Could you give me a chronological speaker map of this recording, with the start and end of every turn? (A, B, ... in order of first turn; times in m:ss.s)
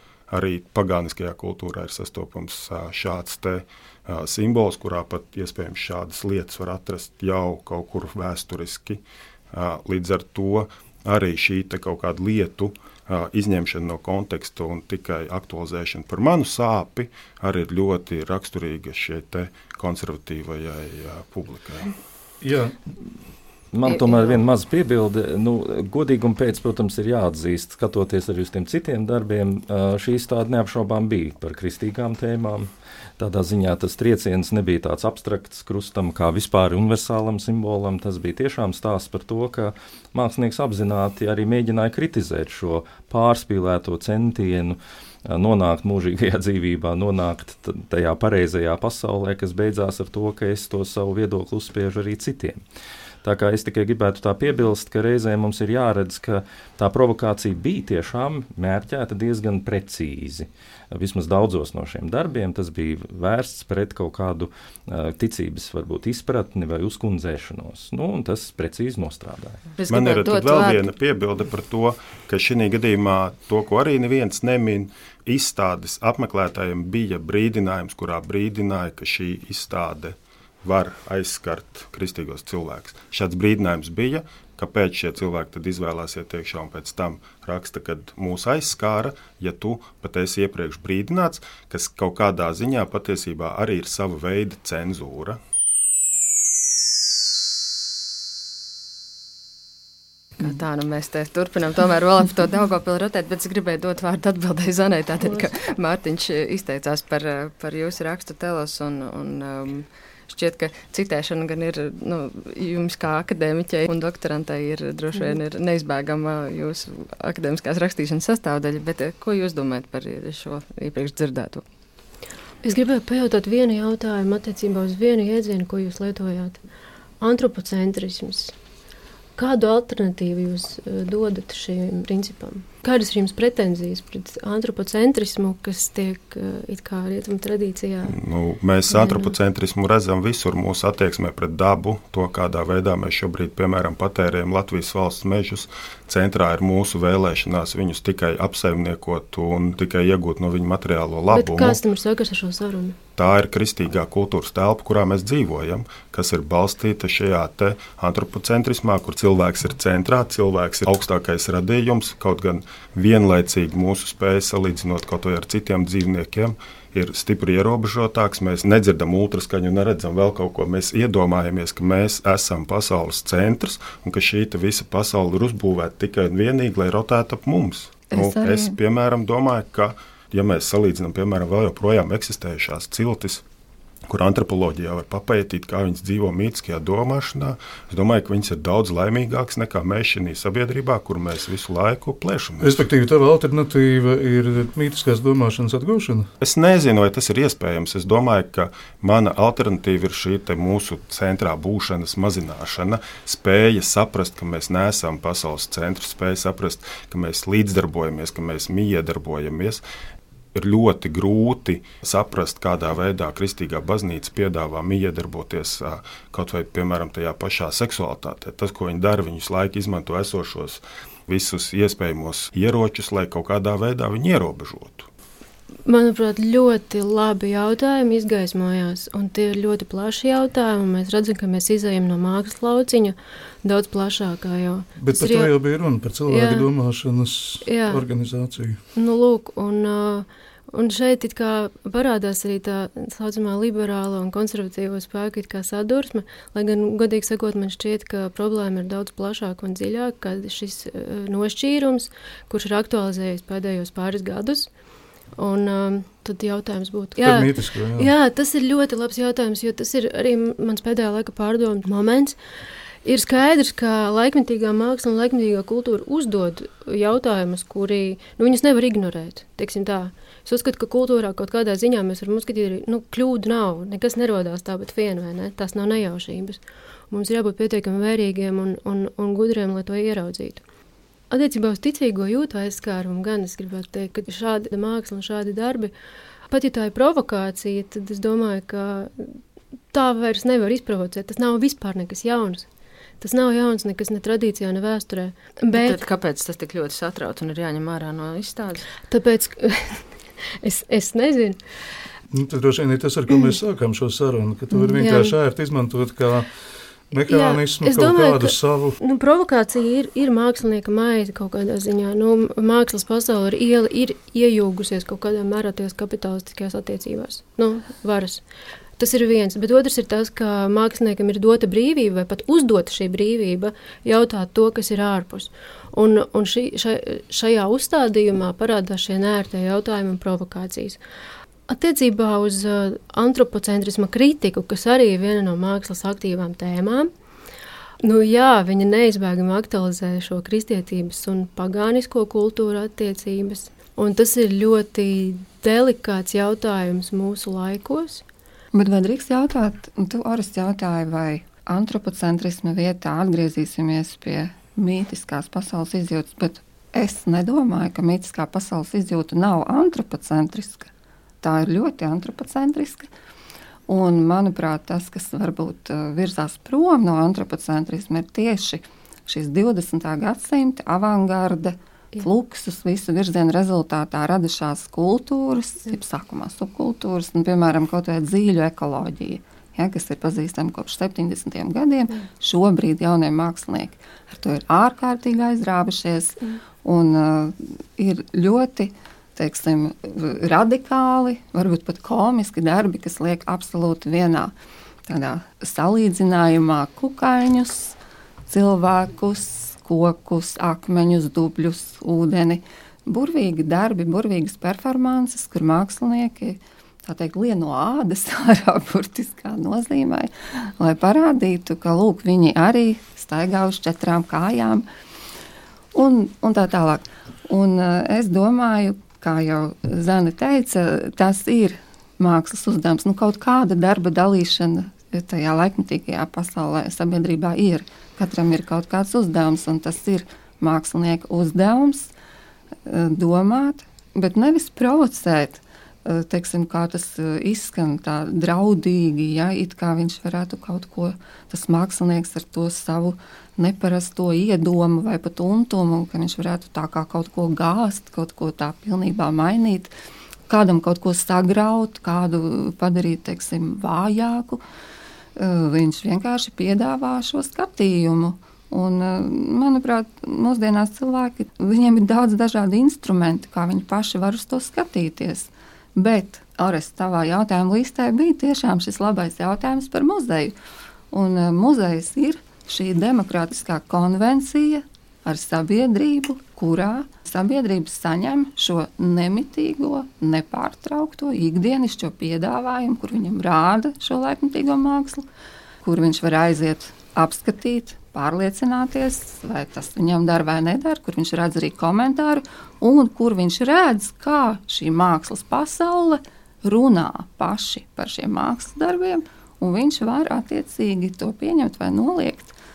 0:00.3-0:21.9 A
0:22.4-0:22.8 B
0:23.7-0:52.6 C
0:23.8-0:24.4 D
0:53.2-1:09.6 C
1:09.8-1:10.8 D
1:09.9-1:35.4 A
1:40.4-2:01.6 D
2:02.6-2:06.6 E
2:07.2-2:08.5 E
2:09.4-2:18.2 E
2:18.1-2:31.8 A
2:18.9-2:19.3 E
2:31.3-2:33.0 E
2:33.2-3:03.4 A
2:58.1-2:58.8 F
3:04.1-3:12.8 A
3:12.6-3:16.3 B
3:16.4-3:29.8 A
3:30.5-3:45.1 A
3:45.9-3:55.5 E
3:55.0-3:58.8 B
3:56.3-3:56.7 E
3:57.6-3:58.0 E
3:59.0-4:14.7 E
4:15.4-4:22.4 E
4:17.2-4:18.1 B
4:23.0-4:40.6 E
4:41.3-4:45.9 E
4:46.5-4:49.4 E
4:49.9-4:52.7 E
4:53.2-4:56.1 E
4:55.7-4:58.9 D
4:59.1-5:00.0 E
5:00.6-5:01.6 E
5:02.3-5:06.5 B
5:03.3-5:03.6 E
5:04.7-5:05.4 E
5:07.1-5:09.0 B
5:07.3-5:18.4 E
5:19.0-5:31.0 E
5:31.7-5:37.1 E
5:38.0-5:48.2 E
5:48.7-6:00.9 F
6:01.4-6:03.1 F
6:03.9-6:34.5 F
6:35.1-6:38.0 F
6:38.5-6:54.9 F
6:55.9-7:12.1 F
7:12.9-7:29.9 F
7:30.5-7:34.6 F
7:35.4-7:50.6 F
7:51.1-8:05.3 F
8:05.8-8:22.6 F